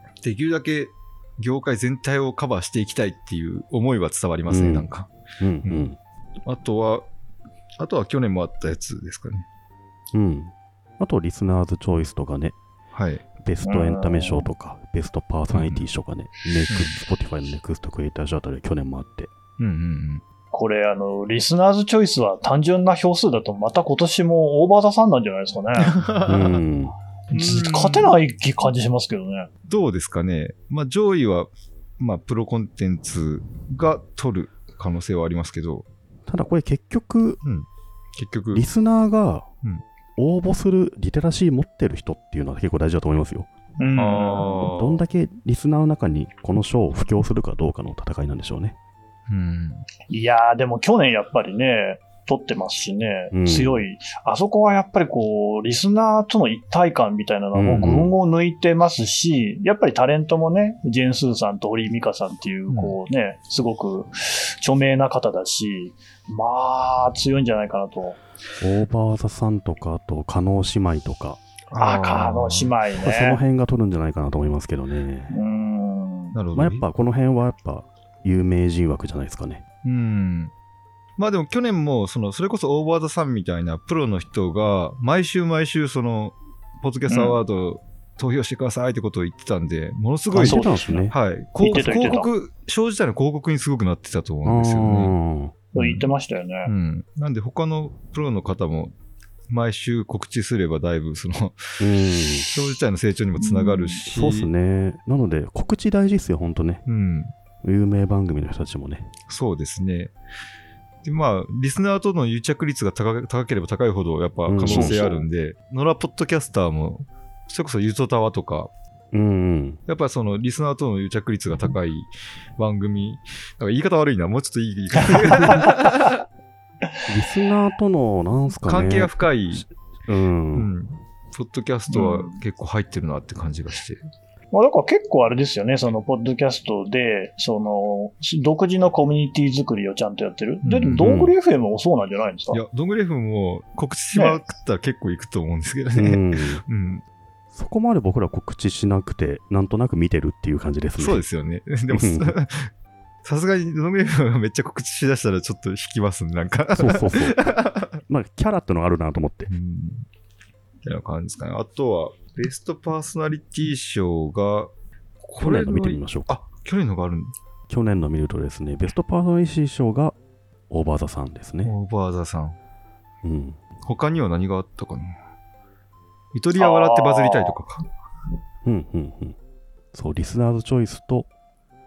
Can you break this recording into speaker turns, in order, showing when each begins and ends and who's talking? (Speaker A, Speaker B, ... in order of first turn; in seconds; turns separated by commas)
Speaker A: 0.2-5.1, Speaker B: 4.5-4.9, Speaker B: 5.4-6.0, Speaker A: 6.5-7.0, Speaker A: 7.8-9.4, Speaker B: 10.1-12.6, Speaker A: 12.9-13.2, Speaker B: 13.4-19.3, Speaker C: 13.6-14.5, Speaker A: 15.5-15.8, Speaker A: 16.7-16.9, Speaker A: 19.6-20.2, Speaker C: 20.5-25.9, Speaker A: 25.8-26.6, Speaker B: 26.2-26.9, Speaker A: 27.3-28.1, Speaker C: 27.3-29.5, Speaker A: 29.7-35.9, Speaker B: 36.3-37.4, Speaker A: 37.4-38.6, Speaker B: 38.5-39.5, Speaker B: 40.2-43.5, Speaker C: 43.8-44.5, Speaker A: 44.0-45.0, Speaker B: 44.6-48.8, Speaker A: 49.3-49.9, Speaker C: 50.1-68.2, Speaker B: 53.3-53.8, Speaker B: 57.5-58.1, Speaker A: 62.7-63.0, Speaker B: 68.6-71.4, Speaker A: 71.7-72.7, Speaker C: 71.8-73.4, Speaker B: 73.0-75.3, Speaker C: 75.3-76.3, Speaker A: 76.3-76.8, Speaker B: 76.5-79.6, Speaker A: 79.8-80.5, Speaker A: 81.2-95.1, Speaker C: 87.1-87.4, Speaker B: 90.3-91.1, Speaker C: 90.4-91.1, Speaker C: 91.6-92.3, Speaker B: 91.7-92.2, Speaker B: 94.4-95.5, Speaker C: 95.7-96.7, Speaker A: 95.8-96.1, Speaker A: 96.7-98.9, Speaker A: 99.5-101.8, Speaker B: 101.8-102.5, Speaker A: 102.4-104.5, Speaker C: 103.4-104.0, Speaker B: 104.1-106.8, Speaker A: 106.9-107.3, Speaker B: 107.6-109.1, Speaker A: 109.3-110.1, Speaker A: 111.0-118.7, Speaker B: 114.5-115.2, Speaker C: 114.8-115.2, Speaker B: 119.1-119.8, Speaker A: 119.9-126.1, Speaker B: 127.1-130.7, Speaker A: 128.6-129.6, Speaker A: 130.5-134.0, Speaker C: 131.9-132.4, Speaker C: 134.5-142.6, Speaker A: 140.6-141.0, Speaker B: 140.9-141.3, Speaker A: 142.5-147.0, Speaker B: 145.9-146.6, Speaker B: 147.5-151.2, Speaker A: 151.0-152.7, Speaker B: 151.9-152.3, Speaker A: 153.2-158.0, Speaker B: 156.7-159.5, Speaker A: 159.5-160.0, Speaker A: 160.8-164.7, Speaker A: 165.2-167.3, Speaker B: 165.4-166.4, Speaker B: 167.7-170.2, Speaker B: 170.7-171.7, Speaker A: 171.6-172.6, Speaker B: 173.2-173.6, Speaker A: 173.8-175.2, Speaker A: 176.3-177.9, Speaker C: 176.6-177.6, Speaker B: 178.6-179.3, Speaker B: 179.9-181.3